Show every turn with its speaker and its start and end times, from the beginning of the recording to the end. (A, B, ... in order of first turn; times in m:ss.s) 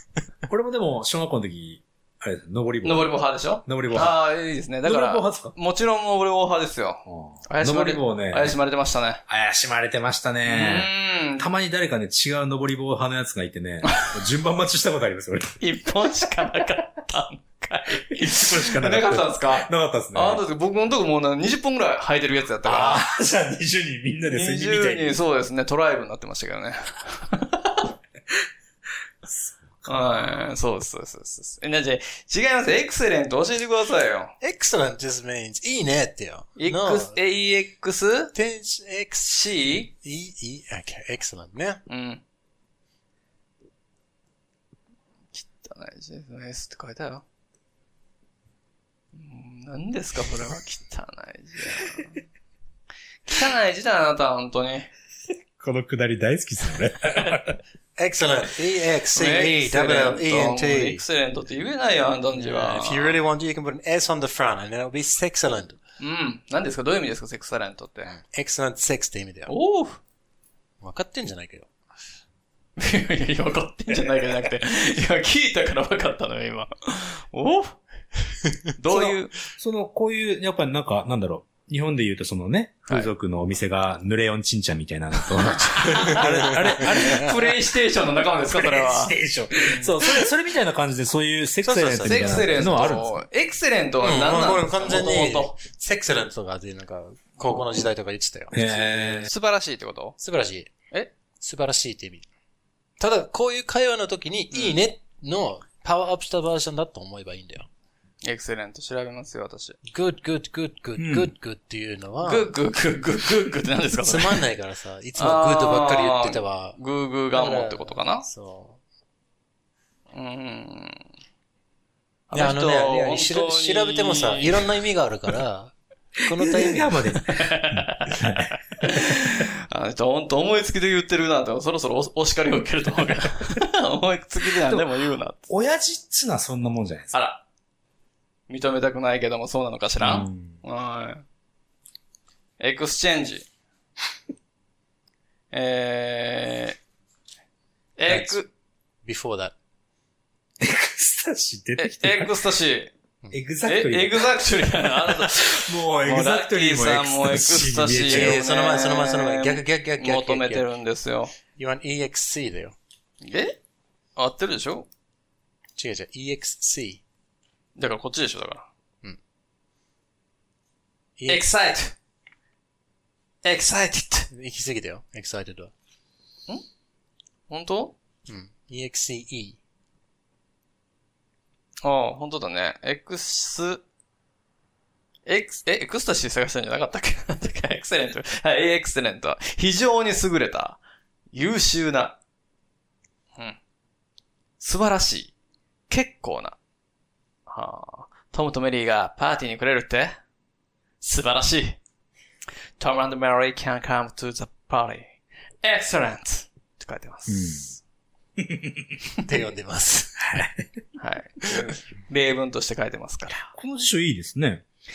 0:00.5-0:03.1 A
0:02.8-0:09.2 B
0:03.6-0:04.2 A
0:04.8-0:05.5 A
0:07.1-0:08.6 A
0:09.3-0:15.6 A
0:10.5-0:11.5 B
0:13.8-0:14.2 B
0:15.6-0:23.0 B
0:18.1-0:20.4 A
0:22.6-0:25.2 A
0:24.3-0:27.9 B
0:29.3-0:29.9 A
0:29.8-0:34.3 B
0:34.4-0:37.2 C
0:36.6-0:38.3 B
0:38.3-0:39.4 C
0:39.3-0:39.9 B
0:39.9-0:41.8 C
0:41.9-0:42.2 B
0:45.3-0:47.2 B
0:49.1-0:52.2 B
0:53.3-0:54.9 B
0:55.6-0:57.6 A
0:58.0-1:01.0 C
0:59.1-1:03.2 B
1:02.4-1:05.8 C
1:06.0-1:08.2 B
1:08.0-1:09.5 C
1:09.5-1:10.0 B
1:10.8-1:11.7 C
1:12.8-1:17.8 B
1:18.8-1:19.3 B
1:18.9-1:27.6 A
1:25.8-1:29.1 B
1:25.8-1:26.8 C
1:28.5-1:33.2 A
1:31.6-1:32.9 C
1:32.0-1:35.6 B
1:34.0-1:39.3 C
1:38.5-1:39.3 A
1:39.3-1:40.2 B
1:40.2-1:40.7 C
1:41.4-1:42.3 C
1:43.0-1:47.7 C
1:44.5-1:44.8 B
1:48.2-1:49.8 B
1:49.9-1:52.5 C
1:51.0-1:51.3 A
1:52.2-1:54.4 B
1:54.0-1:56.8 C
1:55.2-1:58.3 B
1:57.3-1:58.8 C
2:00.1-2:01.0 B
2:02.3-2:04.7 B
2:02.3-2:07.0 C
2:06.4-2:08.9 A
2:07.3-2:15.5 B
2:14.6-2:14.9 A
2:15.5-2:17.2 A
2:17.1-2:17.4 B
2:18.5-2:21.2 B
2:20.0-2:20.6 A
2:22.6-2:23.5 B
2:25.5-2:26.8 B
2:28.0-2:28.5 B
2:28.1-2:28.4 C
2:29.0-2:29.5 C
2:30.6-2:32.4 A
2:31.8-2:32.9 B
2:33.3-2:38.4 A
2:33.6-2:41.3 B
2:38.1-2:40.7 C
2:41.6-2:42.8 C
2:43.2-2:43.6 B
2:44.2-2:44.9 B
2:45.8-2:47.0 C
2:47.8-2:48.7 B
2:51.2-2:51.5 C
2:51.3-2:51.9 B
2:53.4-2:54.3 B
2:54.3-2:55.7 C
2:57.5-2:58.0 B
2:58.3-2:59.6 C
3:01.8-3:03.8 B
3:05.3-3:10.8 B
3:11.3-3:12.2 B
3:14.6-3:15.3 B
3:15.9-3:16.6 B
3:17.5-3:20.2 B
3:21.0-3:21.8 B
3:22.8-3:27.8 B
3:27.3-3:27.7 A
3:28.4-3:28.9 A
3:29.2-3:30.3 C
3:30.3-3:30.7 A
3:31.0-3:33.5 B
3:33.4-3:34.6 A